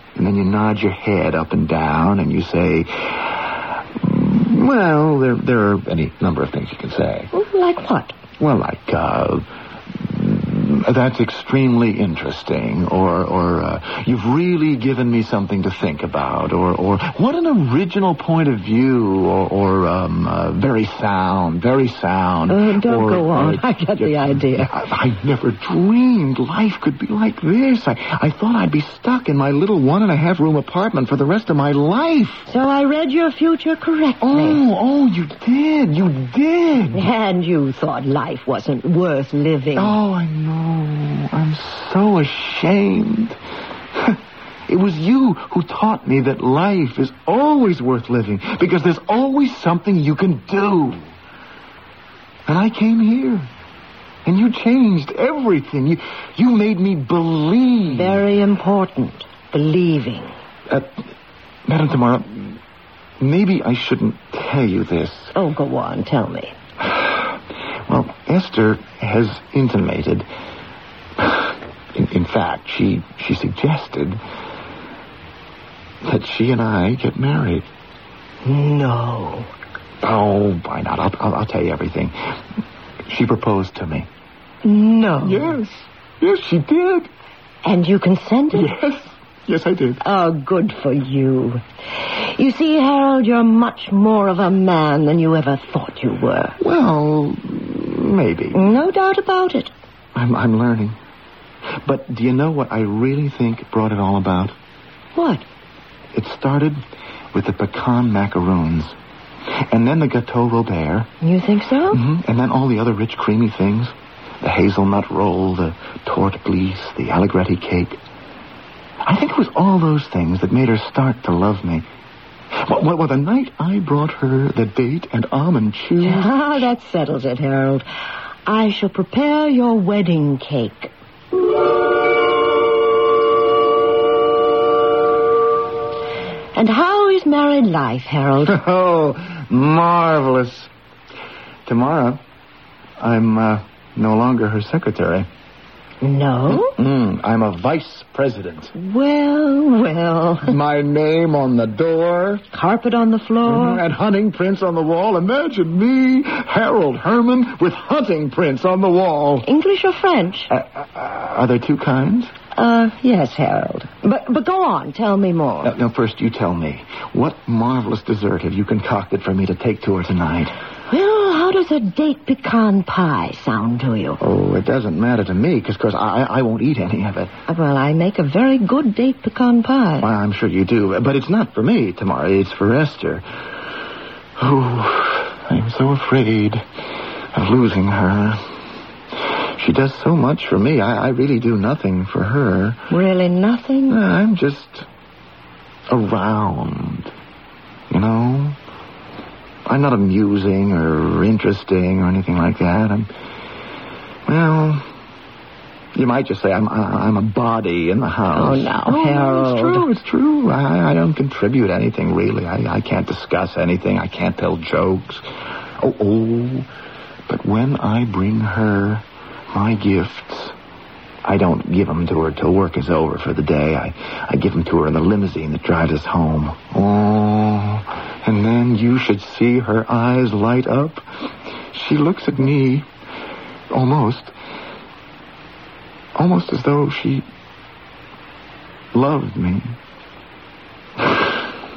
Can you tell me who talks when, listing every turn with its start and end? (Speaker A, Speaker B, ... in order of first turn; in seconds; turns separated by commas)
Speaker A: 0.2-7.3, Speaker B: 7.3-8.2, Speaker A: 8.4-32.5, Speaker B: 22.5-24.7, Speaker B: 32.5-34.6, Speaker A: 34.2-37.1, Speaker B: 36.9-40.0, Speaker A: 39.8-43.4, Speaker A: 43.9-51.1, Speaker A: 52.5-53.5, Speaker A: 54.2-58.2, Speaker B: 57.9-60.3, Speaker A: 60.7-61.1, Speaker A: 61.7-62.6, Speaker A: 63.2-65.3, Speaker B: 65.3-66.5, Speaker A: 66.8-70.3, Speaker A: 71.2-74.2, Speaker A: 76.0-77.7, Speaker B: 78.4-79.5, Speaker A: 80.0-82.4, Speaker A: 83.1-84.1, Speaker B: 84.6-85.5, Speaker A: 85.2-87.1, Speaker B: 87.6-88.7, Speaker A: 88.5-90.0, Speaker B: 90.0-96.6, Speaker A: 96.6-98.7, Speaker B: 98.5-99.7, Speaker A: 100.1-101.0, Speaker A: 101.7-104.5, Speaker B: 105.2-105.5, Speaker A: 106.1-106.8, Speaker A: 107.3-109.0, Speaker A: 109.7-111.1, Speaker B: 111.2-112.0, Speaker A: 111.9-118.0, Speaker A: 119.0-121.9, Speaker A: 122.5-126.6, Speaker B: 126.0-127.9, Speaker B: 128.5-130.9, Speaker B: 136.6-138.6, Speaker A: 138.4-140.7, Speaker A: 141.7-142.2, Speaker A: 143.0-145.3, Speaker B: 146.0-146.8, Speaker A: 146.5-148.7, Speaker B: 148.8-150.6, Speaker A: 150.5-152.5, Speaker B: 152.5-153.8, Speaker A: 153.4-159.5, Speaker B: 159.4-160.5, Speaker A: 160.5-162.3, Speaker B: 162.6-165.7, Speaker A: 165.6-170.6, Speaker B: 170.9-174.2, Speaker A: 174.2-177.3, Speaker B: 177.5-180.1, Speaker A: 180.0-183.2, Speaker A: 184.4-186.7, Speaker A: 187.3-188.6, Speaker A: 189.2-192.9, Speaker B: 192.9-194.0, Speaker A: 193.9-194.9, Speaker A: 195.9-197.1, Speaker A: 197.9-198.6, Speaker A: 199.7-203.1, Speaker A: 204.3-204.9, Speaker A: 205.9-215.2, Speaker B: 208.3-209.9, Speaker A: 215.8-216.7, Speaker A: 217.3-220.6, Speaker A: 221.2-231.1, Speaker A: 231.7-232.9, Speaker A: 233.7-234.3, Speaker A: 236.2-237.2, Speaker A: 238.9-239.8, Speaker A: 241.0-241.3